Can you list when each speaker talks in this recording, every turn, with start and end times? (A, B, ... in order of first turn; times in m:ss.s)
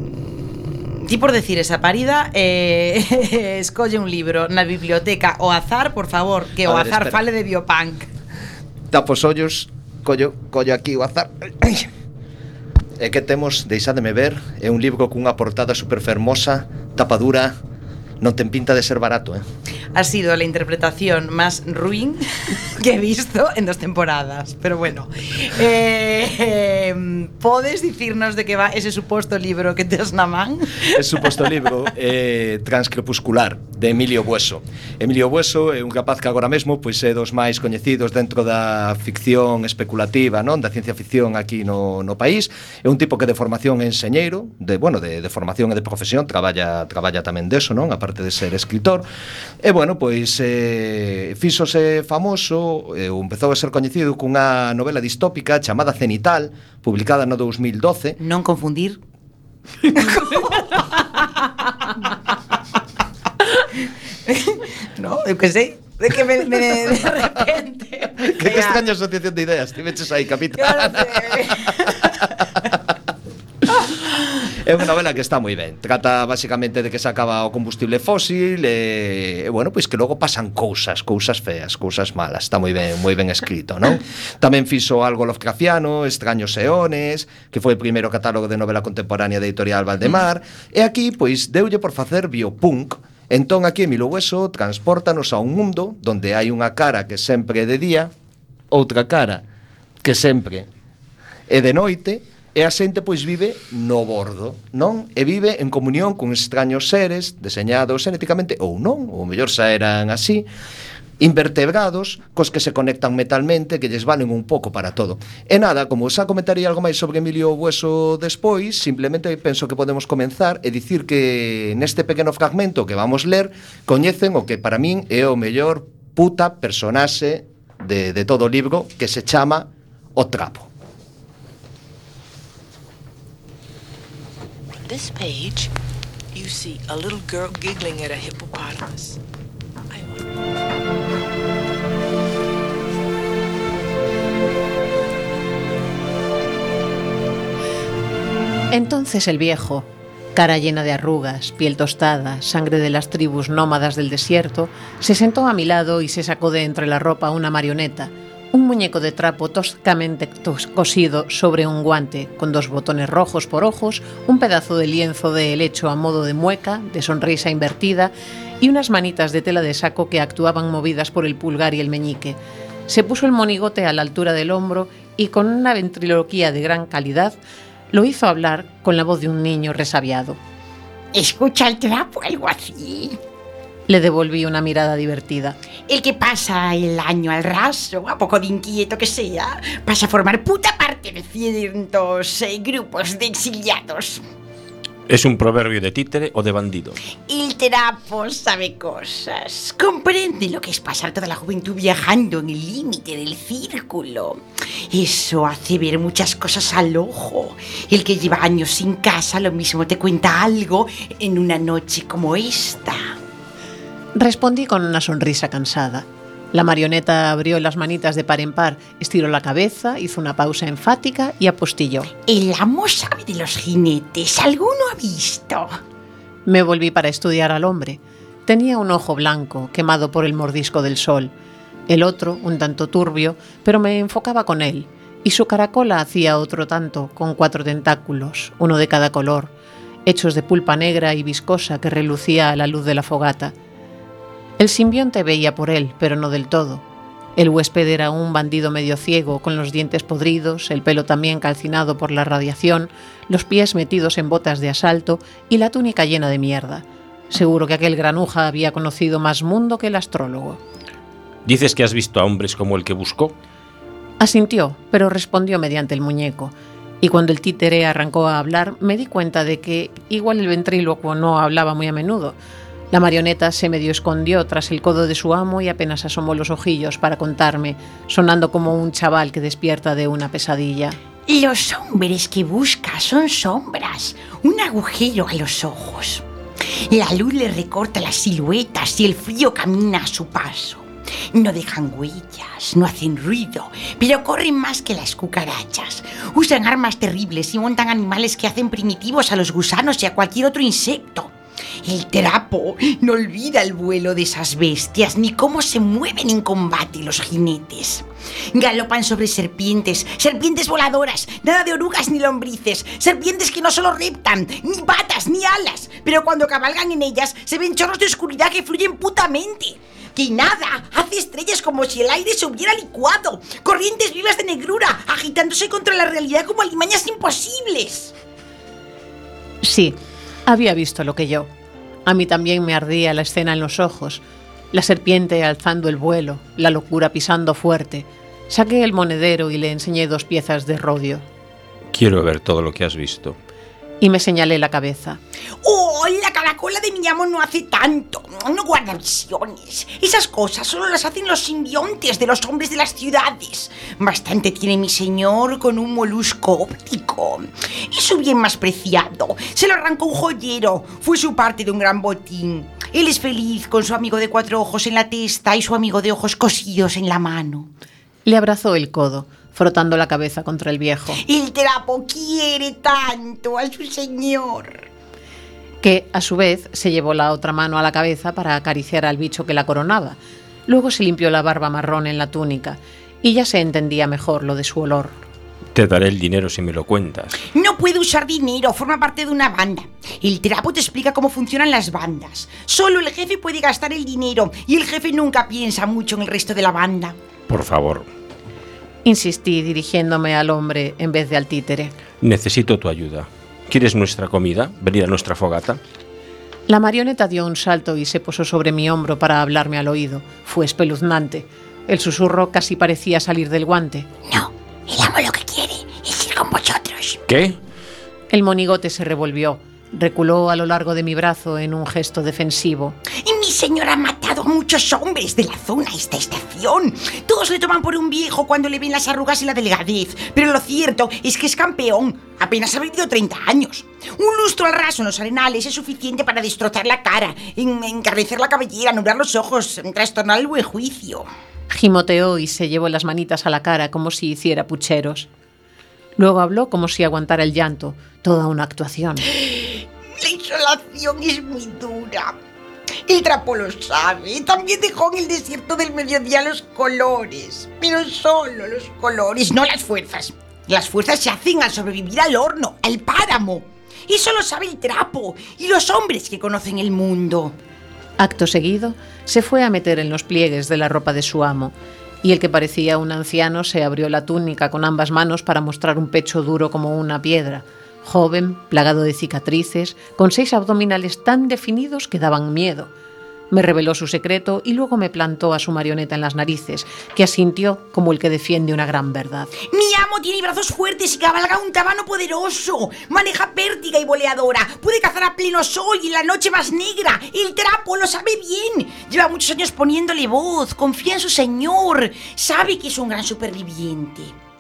0:01.1-0:02.2 A
0:02.0-0:04.1 B
0:04.0-0:06.4 A
0:04.8-0:08.0 B
0:06.7-0:07.2 C
0:08.9-0:11.9 C
0:13.0-0:17.6 C
0:18.2-0:19.4 C
0:20.0-0:22.2 A
0:22.9-0:23.8 B
0:23.5-0:25.0 A
0:24.4-0:25.5 B
0:25.6-0:26.2 A
0:26.3-0:26.6 B
0:27.4-0:28.0 B
0:28.0-0:29.7 A
0:28.9-0:30.5 B
0:30.9-0:49.0 C
0:49.6-0:58.2 C
0:58.3-0:59.0 A
1:05.0-1:08.8 B
1:08.2-1:11.9 C
1:10.6-1:11.7 B
1:14.5-1:38.1 C
1:38.7-1:39.4 C
1:40.0-1:40.7 C
1:41.5-1:50.5 C
1:51.2-2:10.7 C
2:14.8-2:15.7 D
2:16.3-2:19.2 D
2:19.9-2:20.3 D
2:28.7-2:52.4 E
2:52.9-2:57.4 E
2:57.9-3:00.4 E
3:01.1-3:03.2 B
3:03.9-3:05.6 E
3:05.9-3:14.2 B
3:15.1-3:17.0 F
3:17.3-3:33.0 B
3:34.2-3:42.1 E
3:42.2-3:45.7 B
3:46.5-3:51.3 E
3:51.9-3:59.5 E
4:00.1-4:03.5 E
4:04.6-4:06.8 E
4:07.4-4:20.6 E
4:21.4-4:23.4 F
4:24.2-4:32.4 E
4:32.9-4:41.0 E
4:41.3-4:46.2 B
4:46.9-5:01.3 B
5:01.8-5:28.1 B
5:29.6-5:31.5 E
5:32.1-5:41.2 E
5:41.9-5:43.4 F
5:44.0-5:45.2 E
5:45.6-6:07.7 B
6:08.3-6:11.2 E
6:11.2-6:14.8 B
6:15.8-6:25.2 E
6:25.7-6:27.4 F
6:27.5-6:37.2 B
6:37.5-6:38.1 F
6:39.0-6:41.9 E
6:42.2-6:45.8 F
6:46.7-6:54.1 E
6:54.3-6:57.2 B
6:57.3-6:57.6 F
6:58.3-7:03.0 E
7:03.2-7:21.3 B
7:21.7-7:25.3 E
7:26.2-7:29.2 E
7:29.3-7:32.3 B
7:33.1-7:47.5 B
7:48.2-8:02.9 E
8:03.5-8:09.5 E
8:09.6-8:24.3 B